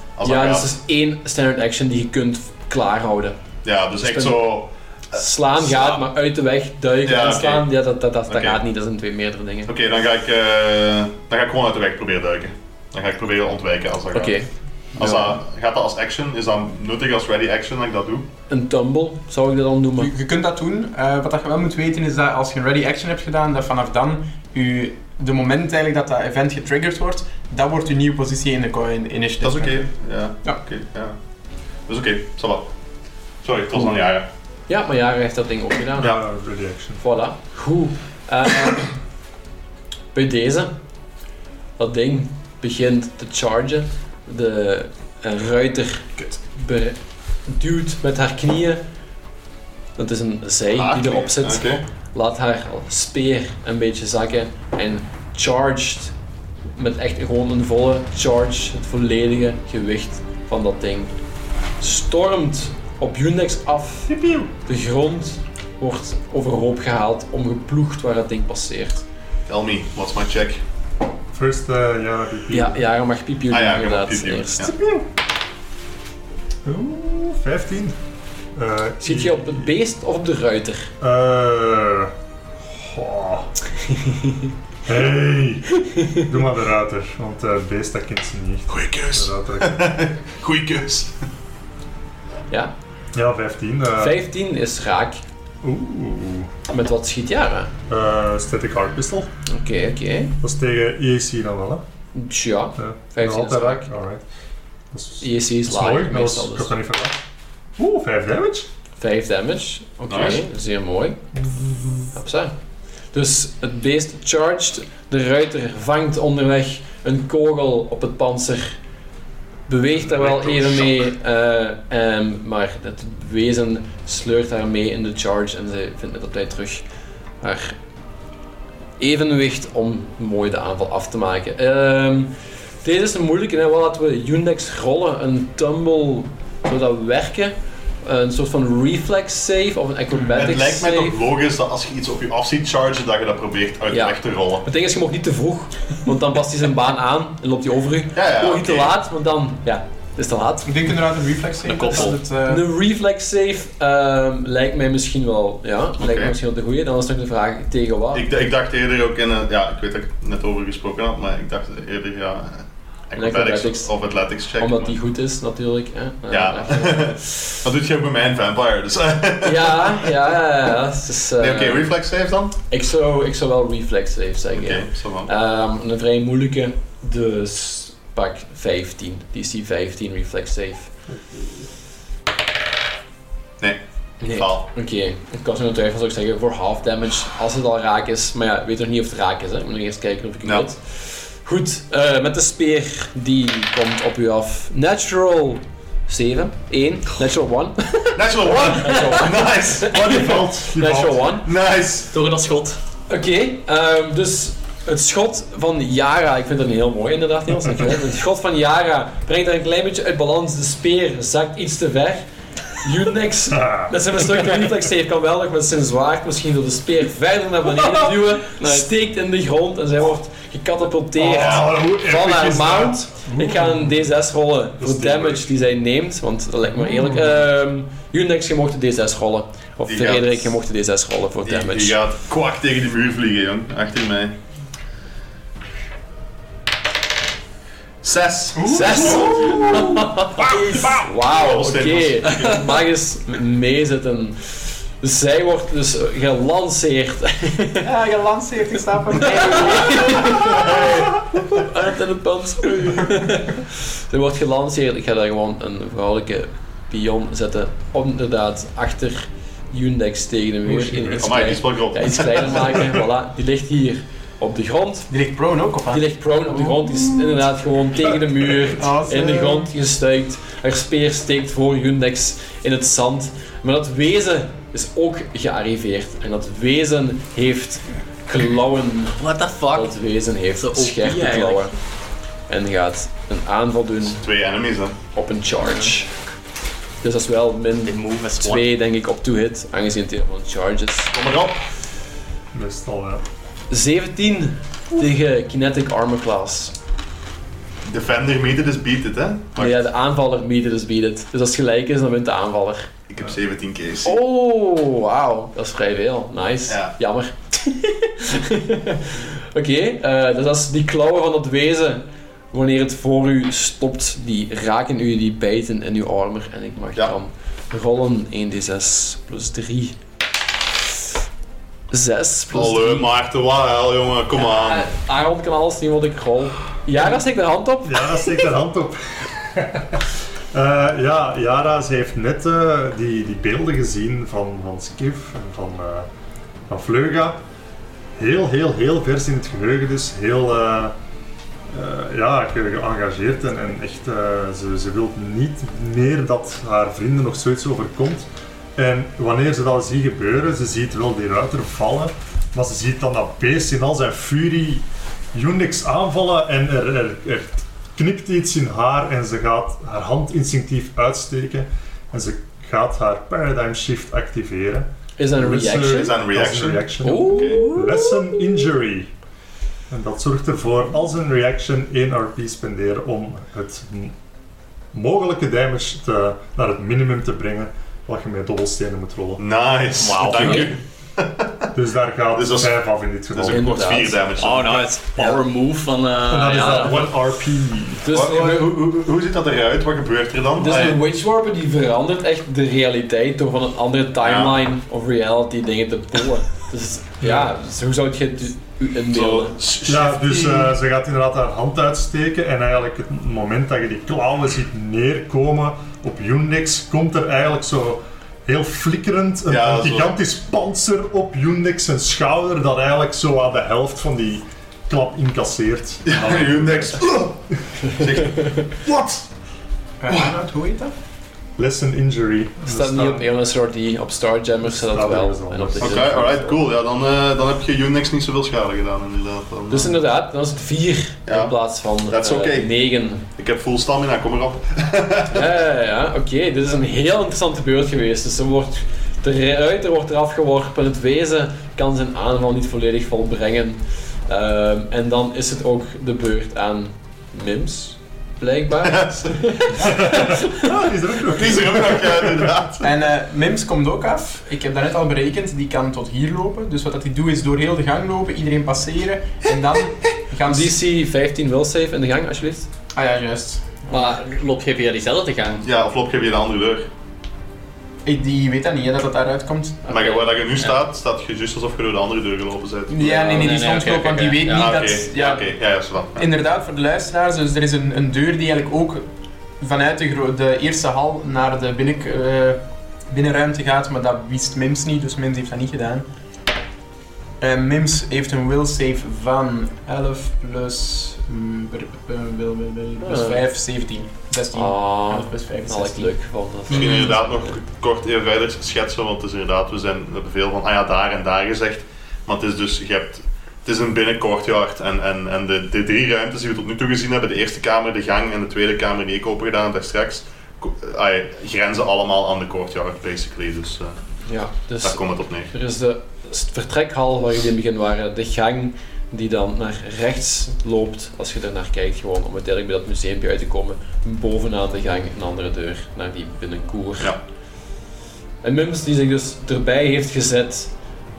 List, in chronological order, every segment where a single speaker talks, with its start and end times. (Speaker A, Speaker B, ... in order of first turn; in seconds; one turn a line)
Speaker A: 0.2-0.7
Speaker B: 0.2-3.4
Speaker A: 3.6-6.0
Speaker B: 4.0-4.5
Speaker B: 5.1-9.7
Speaker A: 7.0-7.7
Speaker A: 8.3-8.6
Speaker A: 9.7-14.4
Speaker B: 14.1-15.4
Speaker A: 15.0-18.2
Speaker B: 18.5-20.1
Speaker C: 20.0-29.9
Speaker A: 29.4-31.1
Speaker A: 31.9-32.7
Speaker A: 33.4-34.3
Speaker B: 34.7-36.2
Speaker D: 36.0-37.0
Speaker B: 37.0-38.9
Speaker B: 40.1-40.7
Speaker B: 41.8-48.8
Speaker B: 50.0-56.1
Speaker A: 50.7-51.8
Speaker B: 56.7-61.1
Speaker B: 61.8-64.1
Speaker D: 64.1-64.5
Speaker B: 64.7-69.0
Speaker A: 69.5-70.6
Speaker D: 71.3-72.8
Speaker B: 72.5-74.7
Speaker A: 73.5-74.7
Speaker D: 74.6-75.1
Speaker D: 76.6-78.0
Speaker D: 78.5-79.7
Speaker B: 79.0-80.9
Speaker D: 81.0-83.5
Speaker B: 84.0-84.4
Speaker D: 84.9-89.9
Speaker B: 85.9-86.2
Speaker A: 88.7-91.1
Speaker D: 93.1-94.2
Speaker B: 94.0-95.2
Speaker D: 95.6-96.5
Speaker B: 96.7-97.7
Speaker D: 97.9-99.3
Speaker B: 99.5-100.3
Speaker D: 100.4-101.8
Speaker B: 102.1-103.9
Speaker D: 102.8-104.2
Speaker D: 104.9-107.2
Speaker B: 105.2-106.7
Speaker D: 107.8-108.7
Speaker B: 109.0-111.2
Speaker A: 110.1-110.4
Speaker D: 111.3-112.1
Speaker B: 112.1-112.5
Speaker B: 113.1-118.8
Speaker B: 119.7-126.8
Speaker D: 120.1-120.6
Speaker B: 127.4-127.8
Speaker B: 129.0-141.2
Speaker A: 140.3-144.6
Speaker B: 143.9-150.7
Speaker A: 148.1-148.9
Speaker C: 150.6-152.7
Speaker E: 151.6-152.2
Speaker B: 151.9-158.2
Speaker A: 156.0-156.3
Speaker A: 158.1-164.9
Speaker B: 163.2-163.9
Speaker B: 164.6-167.2
Speaker A: 166.3-170.2
Speaker B: 169.4-171.9
Speaker A: 171.4-172.6
Speaker B: 172.7-180.9
Speaker A: 174.5-175.3
Speaker A: 183.6-184.7
Speaker B: 184.2-201.5
Speaker A: 198.1-200.3
Speaker D: 199.9-201.4
Speaker A: 201.4-202.1
Speaker E: 202.1-202.8
Speaker B: 203.1-212.2
Speaker B: 212.8-232.0
Speaker D: 213.5-214.6
Speaker E: 217.8-218.9
Speaker D: 221.2-224.1
Speaker A: 221.4-221.7
Speaker D: 224.8-225.5
Speaker D: 226.8-227.3
Speaker A: 229.9-230.5
Speaker A: 231.4-234.4
Speaker A: 238.0-242.8
Speaker C: 238.6-239.9
Speaker B: 238.6-247.9
Speaker C: 247.8-251.1
Speaker B: 249.2-265.1
Speaker D: 260.7-261.2
Speaker A: 261.2-262.8
Speaker C: 265.1-267.4
Speaker B: 265.9-281.7
Speaker C: 268.7-269.7
Speaker E: 279.2-279.9
Speaker E: 280.6-281.7
Speaker B: 282.5-284.2
Speaker A: 284.1-285.0
Speaker B: 285.1-286.1
Speaker B: 287.0-291.1
Speaker E: 287.9-288.7
Speaker A: 291.1-291.6
Speaker D: 292.5-293.2
Speaker B: 293.7-296.7
Speaker A: 297.8-299.8
Speaker B: 299.6-302.9
Speaker A: 303.1-304.2
Speaker B: 304.0-319.9
Speaker A: 306.7-306.9
Speaker B: 321.9-323.1
Speaker A: 322.5-324.9
Speaker B: 324.3-328.3
Speaker D: 327.8-336.1
Speaker D: 336.7-337.4
Speaker D: 338.1-340.9
Speaker D: 341.7-369.1
Speaker B: 365.2-366.2
Speaker A: 365.8-367.7
Speaker B: 367.0-368.5
Speaker D: 369.9-374.1
Speaker D: 374.9-379.4
Speaker A: 379.4-381.7
Speaker E: 380.0-380.7
Speaker D: 381.7-383.7
Speaker A: 382.3-382.7
Speaker A: 383.3-385.4
Speaker B: 383.5-384.2
Speaker E: 384.4-387.1
Speaker D: 386.3-388.1
Speaker B: 388.1-388.7
Speaker A: 388.1-391.0
Speaker B: 390.6-399.6
Speaker A: 394.2-394.6
Speaker D: 397.2-397.5
Speaker A: 399.1-400.7
Speaker D: 399.8-417.8
Speaker A: 409.5-410.1
Speaker A: 416.1-418.7
Speaker D: 418.9-419.3
Speaker C: 420.0-420.9
Speaker A: 420.1-420.3
Speaker D: 421.6-423.3
Speaker B: 422.7-426.6
Speaker D: 424.6-426.2
Speaker A: 425.8-429.9
Speaker B: 429.7-433.3
Speaker A: 431.3-432.7
Speaker A: 433.4-435.5
Speaker B: 435.3-450.7
Speaker A: 448.8-449.9
Speaker D: 449.8-452.6
Speaker A: 451.3-452.9
Speaker C: 452.8-460.7
Speaker B: 460.5-462.7
Speaker C: 462.9-464.2
Speaker E: 463.9-465.6
Speaker A: 465.6-466.9
Speaker C: 468.1-469.9
Speaker A: 469.9-473.4
Speaker C: 472.9-475.5
Speaker E: 473.0-474.7
Speaker A: 474.5-476.3
Speaker C: 476.2-479.1
Speaker C: 479.6-486.1
Speaker C: 487.4-496.1
Speaker B: 493.0-493.4
Speaker B: 494.5-497.5
Speaker A: 496.7-514.0
Speaker E: 496.7-497.1
Speaker B: 514.3-527.1
Speaker A: 514.8-515.5
Speaker B: 528.4-530.7